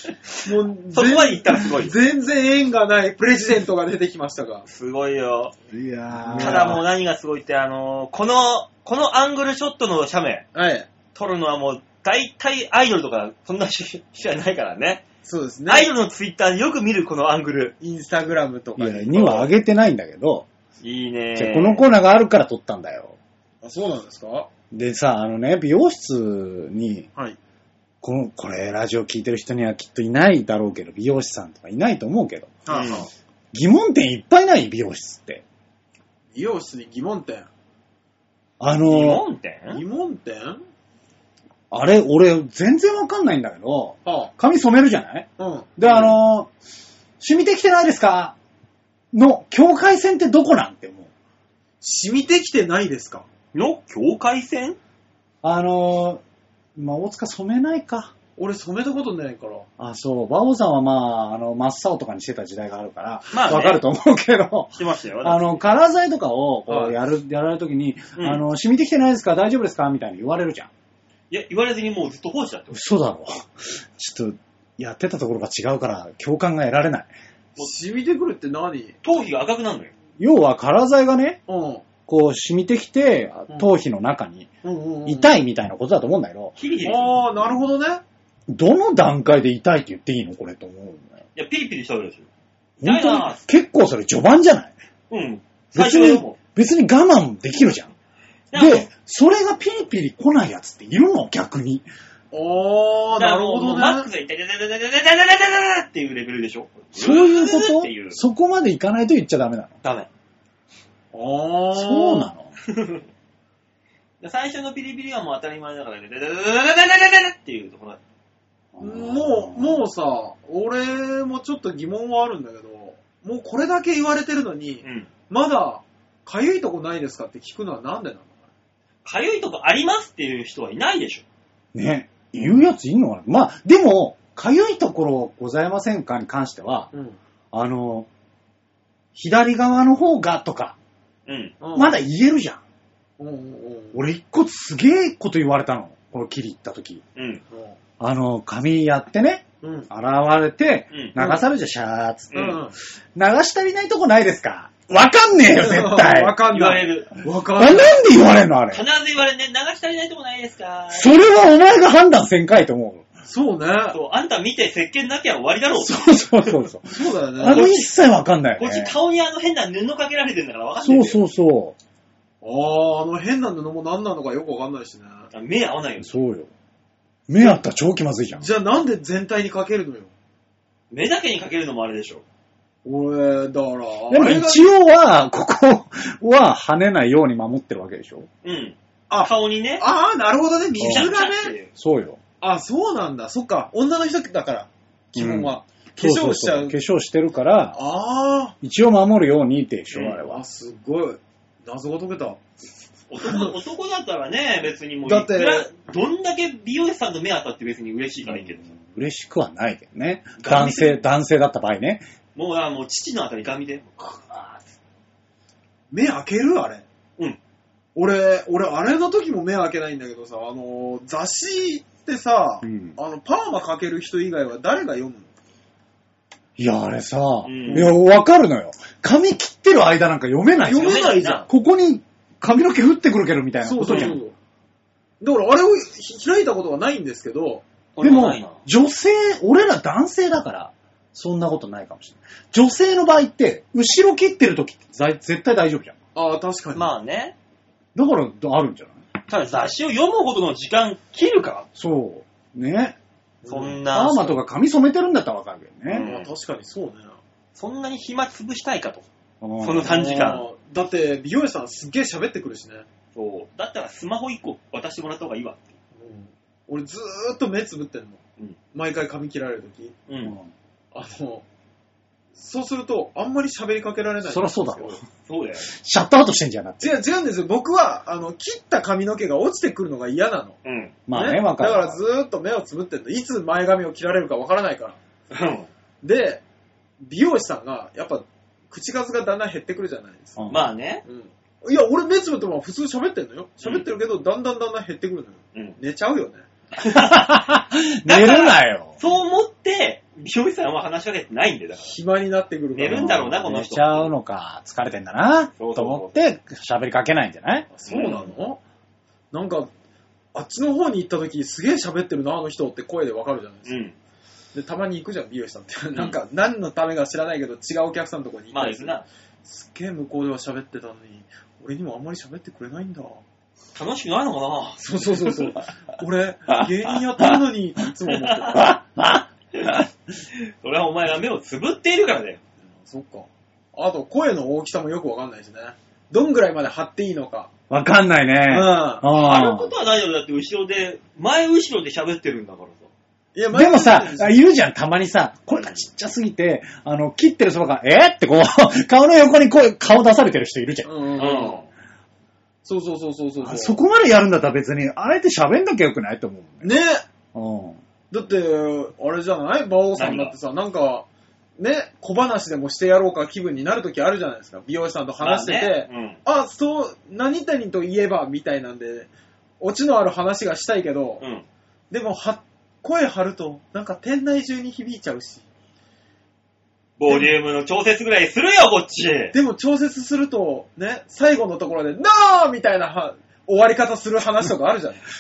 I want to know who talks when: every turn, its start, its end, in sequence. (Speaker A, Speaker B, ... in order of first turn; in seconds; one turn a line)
Speaker A: 0.4-4.7
Speaker B: 0.9-1.9
Speaker B: 4.7-5.5
Speaker C: 5.7-6.8
Speaker A: 6.3-6.8
Speaker B: 6.3-10.4
Speaker A: 10.5-10.9
Speaker B: 11.1-15.0
Speaker A: 15.2-15.9
Speaker B: 15.7-17.8
Speaker A: 17.8-19.5
Speaker C: 18.8-20.5
Speaker B: 20.8-21.8
Speaker C: 21.4-23.2
Speaker A: 23.6-24.5
Speaker C: 24.7-27.1
Speaker C: 28.0-32.6
Speaker A: 32.7-33.1
Speaker B: 32.7-33.1
Speaker C: 33.5-35.4
Speaker A: 36.3-37.5
Speaker C: 38.6-39.2
Speaker B: 38.9-39.8
Speaker A: 39.7-40.6
Speaker C: 41.7-46.5
Speaker A: 44.0-44.3
Speaker A: 45.4-45.9
Speaker C: 47.2-48.4
Speaker C: 49.1-51.1
Speaker A: 51.8-53.3
Speaker B: 53.5-54.8
Speaker C: 55.4-56.2
Speaker C: 56.8-58.1
Speaker A: 58.4-59.7
Speaker C: 59.8-70.7
Speaker B: 63.3-63.8
Speaker B: 64.8-65.6
Speaker A: 66.7-67.0
Speaker B: 68.2-68.4
Speaker B: 71.3-72.8
Speaker C: 72.7-77.1
Speaker A: 77.6-79.0
Speaker B: 79.0-79.9
Speaker C: 80.2-81.4
Speaker A: 81.5-81.8
Speaker C: 82.1-84.5
Speaker A: 84.6-85.3
Speaker C: 85.1-86.6
Speaker B: 86.6-87.2
Speaker A: 86.8-88.0
Speaker C: 88.5-91.2
Speaker B: 91.3-92.3
Speaker C: 92.8-94.7
Speaker B: 92.8-93.4
Speaker B: 95.1-96.4
Speaker C: 95.7-97.9
Speaker B: 98.5-98.9
Speaker C: 98.5-101.9
Speaker A: 102.3-104.1
Speaker B: 103.2-108.2
Speaker C: 107.0-109.8
Speaker B: 109.8-110.1
Speaker A: 111.1-112.3
Speaker C: 111.7-112.5
Speaker B: 112.7-113.0
Speaker B: 114.2-118.0
Speaker C: 118.7-119.8
Speaker A: 118.8-128.3
Speaker B: 124.8-125.1
Speaker B: 129.1-131.2
Speaker C: 131.7-136.9
Speaker C: 137.5-138.1
Speaker C: 139.2-140.8
Speaker B: 141.3-141.6
Speaker A: 141.6-142.0
Speaker C: 141.8-142.6
Speaker A: 143.2-144.0
Speaker C: 143.9-147.0
Speaker B: 147.2-147.4
Speaker A: 147.5-147.8
Speaker C: 148.0-152.6
Speaker A: 149.6-149.9
Speaker A: 151.2-151.5
Speaker B: 152.3-152.6
Speaker A: 152.3-152.8
Speaker C: 153.2-156.4
Speaker A: 155.5-158.1
Speaker B: 156.5-157.1
Speaker C: 157.6-158.8
Speaker B: 158.7-161.1
Speaker C: 160.9-163.1
Speaker A: 163.3-164.0
Speaker B: 163.9-166.2
Speaker C: 165.8-169.0
Speaker A: 166.9-167.7
Speaker B: 167.4-167.9
Speaker B: 168.6-171.2
Speaker C: 170.8-171.8
Speaker A: 172.4-175.3
Speaker B: 175.3-176.2
Speaker C: 176.0-176.5
Speaker C: 177.3-178.5
Speaker A: 178.4-180.1
Speaker B: 180.9-182.2
Speaker A: 182.8-184.7
Speaker C: 184.1-188.3
Speaker B: 188.4-189.8
Speaker A: 189.1-191.6
Speaker C: 190.8-191.1
Speaker B: 190.8-191.7
Speaker C: 191.7-192.2
Speaker A: 192.4-196.8
Speaker C: 195.2-197.8
Speaker A: 197.7-198.6
Speaker C: 198.6-200.4
Speaker A: 200.0-202.4
Speaker B: 203.1-208.7
Speaker A: 203.2-203.5
Speaker A: 205.1-205.7
Speaker C: 208.3-212.0
Speaker B: 210.4-211.0
Speaker B: 212.4-214.6
Speaker A: 215.9-216.8
Speaker A: 217.9-225.3
Speaker C: 222.6-222.9
Speaker C: 226.6-234.2
Speaker B: 227.4-227.9
Speaker A: 227.6-227.9
Speaker A: 230.6-231.5
Speaker B: 230.7-231.5
Speaker A: 233.6-234.3
Speaker B: 233.8-234.2
Speaker A: 235.2-237.7
Speaker B: 238.0-238.6
Speaker C: 238.0-246.0
Speaker A: 246.2-246.9
Speaker B: 246.8-247.3
Speaker C: 247.9-249.0
Speaker B: 249.3-251.7
Speaker C: 251.8-253.0
Speaker A: 253.4-253.8
Speaker B: 253.5-254.4
Speaker C: 253.9-256.1
Speaker B: 255.9-256.3
Speaker A: 256.0-257.2
Speaker B: 257.6-259.1
Speaker C: 259.4-260.0
Speaker B: 259.6-260.4
Speaker A: 259.8-262.9
Speaker B: 263.1-265.7
Speaker A: 266.0-268.2
Speaker A: 268.7-269.9
Speaker B: 270.1-270.4
Speaker A: 270.9-271.4
Speaker A: 272.4-275.0
Speaker C: 274.2-275.0
Speaker B: 275.2-275.7
Speaker C: 275.7-277.0
Speaker A: 276.8-280.6
Speaker B: 280.6-280.9
Speaker C: 281.1-282.0
Speaker A: 281.1-285.0
Speaker B: 285.3-285.7
Speaker A: 286.0-286.4
Speaker A: 287.0-290.4
Speaker C: 290.4-290.7
Speaker B: 290.5-291.0
Speaker A: 291.1-296.4
Speaker B: 296.8-297.4
Speaker C: 296.8-299.0
Speaker B: 298.1-301.9
Speaker A: 301.8-303.3
Speaker B: 302.7-304.1
Speaker C: 302.9-307.7
Speaker B: 305.6-306.1
Speaker A: 307.7-308.6
Speaker B: 307.9-308.3
Speaker A: 309.3-309.7
Speaker A: 310.3-313.8
Speaker B: 313.7-313.9
Speaker A: 314.5-323.2
Speaker B: 318.5-319.1
Speaker B: 323.7-325.3
Speaker A: 324.8-328.8
Speaker B: 328.3-328.6
Speaker C: 328.5-329.9
Speaker B: 330.3-332.4
Speaker A: 332.7-337.5
Speaker C: 337.7-339.7
Speaker A: 338.5-339.1
Speaker B: 339.1-342.9
Speaker A: 343.4-344.4
Speaker C: 343.5-350.9
Speaker B: 345.6-345.8
Speaker A: 350.9-351.6
Speaker B: 351.2-351.7
Speaker A: 352.6-353.8
Speaker C: 353.4-356.7
Speaker A: 356.6-357.0
Speaker C: 357.3-357.8
Speaker A: 358.1-361.1
Speaker B: 360.0-360.4
Speaker A: 361.6-369.1
Speaker B: 365.2-366.2
Speaker A: 369.6-371.2
Speaker B: 371.2-371.4
Speaker A: 371.9-375.4
Speaker B: 377.0-379.4
Speaker A: 377.1-377.4
Speaker A: 379.3-385.1